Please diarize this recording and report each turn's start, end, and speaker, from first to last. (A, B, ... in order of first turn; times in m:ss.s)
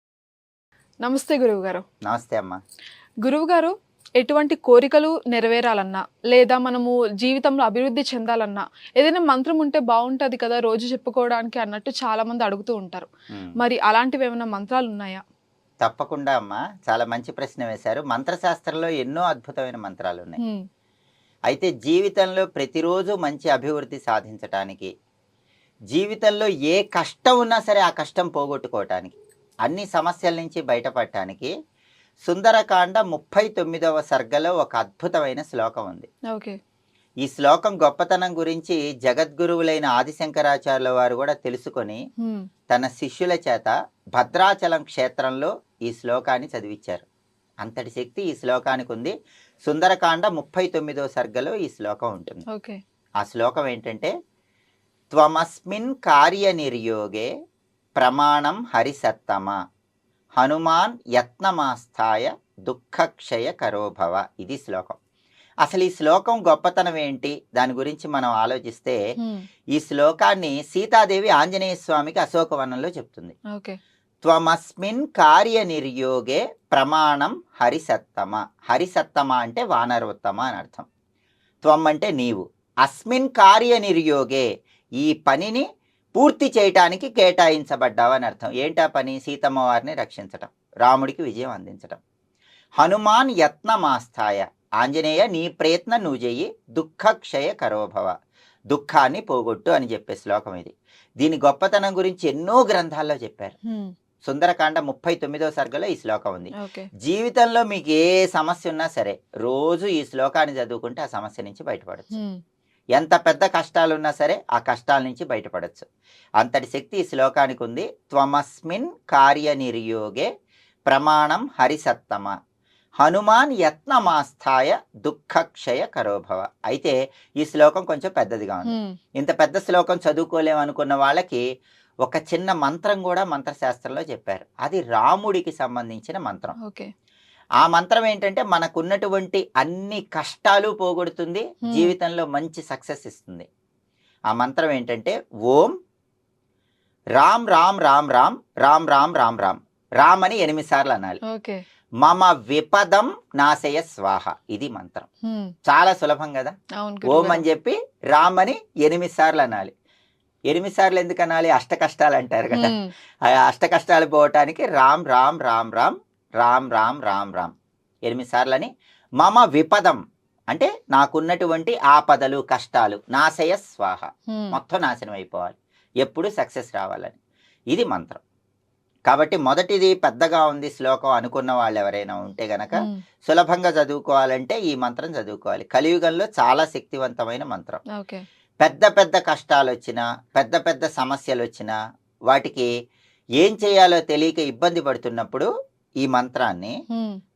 0:01.0-0:01.8 A
0:02.1-0:02.6 B
0:03.2-0:13.1 A
0:13.3-0:13.6 B
0:13.6-0:15.2 A
0:15.8-0:20.4 B
0:21.5-0:24.9 B
0:25.9-0:31.5 B
0:32.3-0:36.1 B
0:36.3-0:36.6 A
0:37.2-0:42.0 B
0:42.7-0:47.0 B
0:47.6-0:49.1 B
0:49.6-0:52.4 B
0:52.5-0:52.8 A
0:53.2-0:54.1 B
0:55.1-0:57.3 B
0:58.0-0:59.6 B
1:00.4-1:05.0 B
1:05.6-1:09.0 B
1:09.8-1:13.4 B
1:14.2-1:20.9 B
1:21.6-1:24.5 B
1:25.0-1:25.6 B
1:26.2-1:32.0 B
1:32.8-1:38.1 B
1:38.7-1:43.6 B
1:44.2-1:52.2 B
1:46.6-1:46.9 A
1:52.1-1:52.4 A
1:53.0-1:55.9 B
1:56.4-2:00.3 B
2:00.9-2:02.3 B
2:03.0-2:11.4 B
2:08.7-2:09.0 A
2:12.1-2:16.6 B
2:16.6-2:16.9 A
2:17.6-2:23.5 B
2:24.3-2:25.7 B
2:27.2-2:31.2 B
2:31.3-2:31.6 A
2:32.0-2:35.1 B
2:35.7-2:36.5 B
2:36.8-2:37.4 A
2:37.0-2:39.7 B
2:40.5-2:42.7 B
2:42.5-2:42.9 A
2:43.3-2:47.5 B
2:48.1-2:48.7 B
2:49.2-2:50.0 B
2:50.5-2:57.2 B
2:54.3-2:54.6 A
2:57.7-2:58.2 B
2:59.1-3:07.8 B
3:08.0-3:08.2 A
3:08.6-3:11.7 B
3:12.3-3:12.7 B
3:13.4-3:15.5 B
3:16.0-3:16.7 B